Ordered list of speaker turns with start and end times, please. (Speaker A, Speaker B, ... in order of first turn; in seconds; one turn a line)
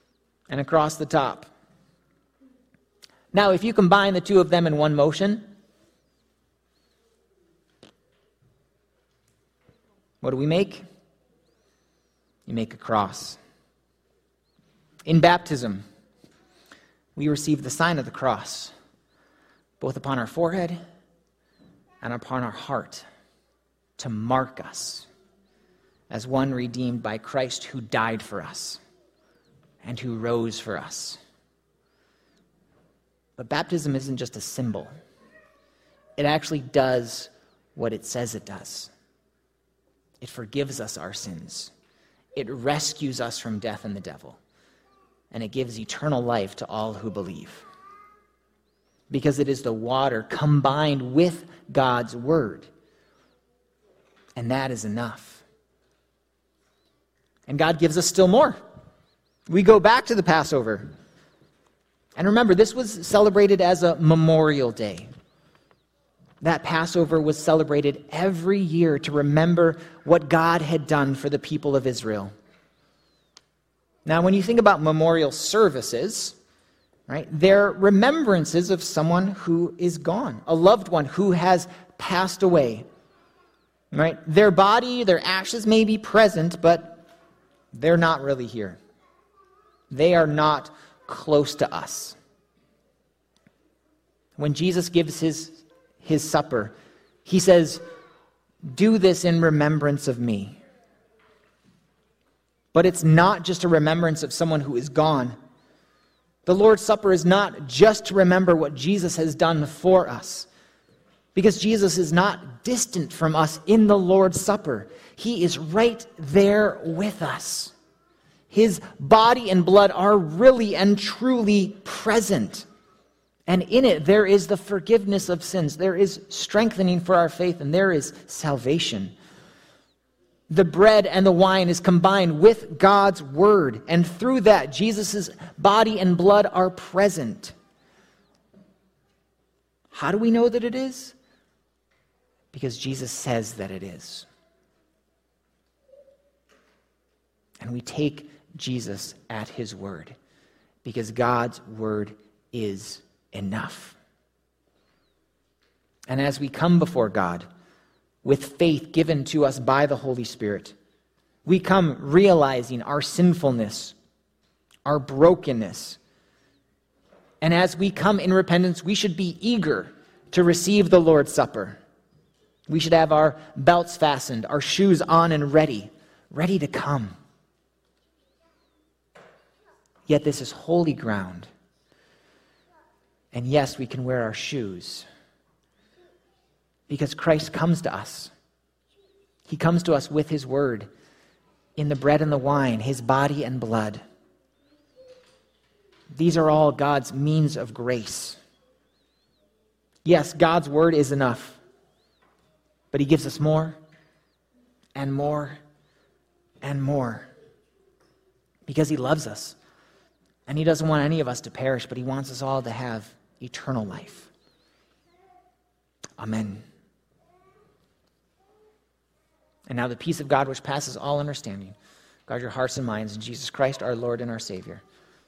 Speaker A: 0.5-1.5
Speaker A: 3.3-5.5
Speaker A: 10.2-10.8
Speaker A: 12.4-13.4
Speaker A: 15.1-15.8
Speaker A: 17.1-18.7
Speaker A: 19.8-20.8
Speaker A: 22.0-23.0
Speaker A: 24.0-25.1
Speaker A: 26.1-28.8
Speaker A: 29.8-31.2
Speaker A: 33.4-34.9
Speaker A: 36.2-38.9
Speaker A: 40.2-41.7
Speaker A: 42.3-44.4
Speaker A: 45.3-47.6
Speaker A: 49.1-52.7
Speaker A: 54.4-55.4
Speaker A: 57.5-58.6
Speaker A: 59.5-60.9
Speaker A: 62.1-65.1
Speaker A: 66.4-72.3
Speaker A: 74.0-76.4
Speaker A: 77.1-82.8
Speaker A: 83.9-87.0
Speaker A: 87.7-88.8
Speaker A: 89.9-92.2
Speaker A: 94.4-96.7
Speaker A: 97.2-97.8
Speaker A: 98.6-100.6
Speaker A: 102.7-105.3
Speaker A: 106.4-110.5
Speaker A: 111.3-117.7
Speaker A: 118.5-122.7
Speaker A: 123.5-129.1
Speaker A: 130.5-137.5
Speaker A: 139.9-141.1
Speaker A: 142.5-144.3
Speaker A: 147.6-150.2
Speaker A: 150.8-154.0
Speaker A: 156.1-157.4
Speaker A: 158.2-160.7
Speaker A: 161.4-163.9
Speaker A: 164.8-166.0
Speaker A: 167.4-171.8
Speaker A: 172.7-177.1
Speaker A: 180.1-181.5
Speaker A: 183.3-185.1
Speaker A: 186.9-188.3
Speaker A: 189.5-190.9
Speaker A: 191.8-194.0
Speaker A: 196.1-198.4
Speaker A: 200.0-201.6
Speaker A: 202.9-203.8
Speaker A: 204.9-205.6
Speaker A: 206.6-207.3
Speaker A: 208.7-209.6
Speaker A: 210.5-214.3
Speaker A: 216.2-216.6
Speaker A: 219.7-221.8
Speaker A: 222.3-224.8